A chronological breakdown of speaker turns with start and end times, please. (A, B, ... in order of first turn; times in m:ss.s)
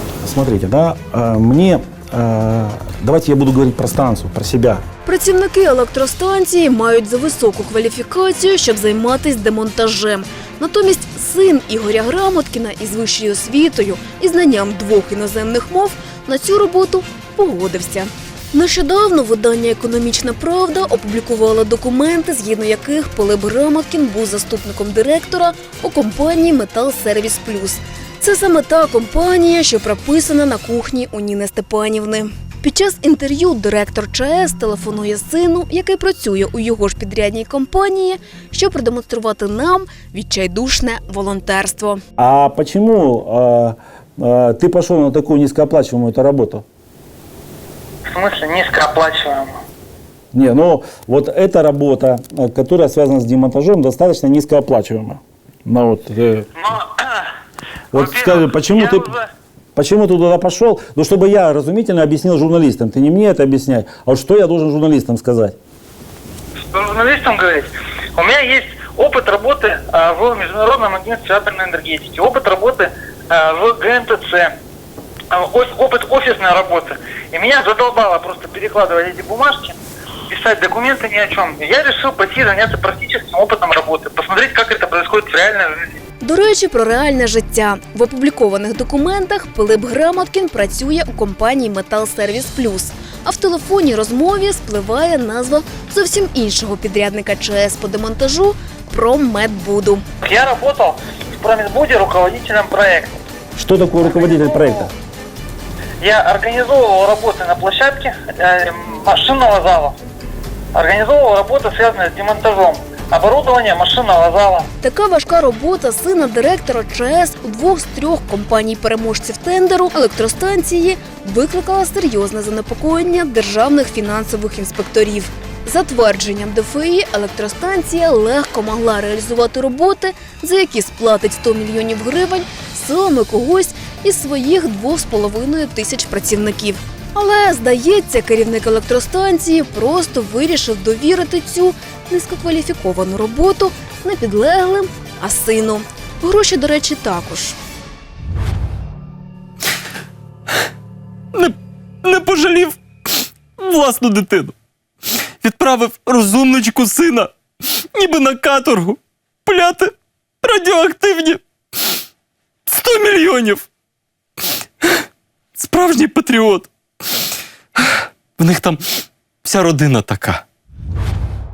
0:00.2-0:04.8 A
0:05.1-0:42.0 B
0:42.2-0:46.6 A
0:48.1-0:49.6 C
0:50.3-0:56.5 A
0:56.6-0:57.3 C
0:57.9-0:59.1 A
0:57.9-0:59.3 C
0:59.8-1:05.6 A
1:06.7-1:14.5 C
1:15.3-1:19.8 C
1:20.3-1:26.0 C
1:26.2-1:40.1 B
1:40.2-1:43.2 C
1:43.6-1:44.9 A
1:44.0-1:44.9 C
1:46.0-1:50.0 C
1:50.7-1:54.7 C
1:54.8-2:27.6 B
2:31.3-2:34.5 D
2:35.4-2:37.3 D
2:37.9-2:41.9 D
2:42.7-2:43.6 D
2:45.6-2:46.7 D
2:47.8-2:48.8 D
2:49.4-2:50.4 D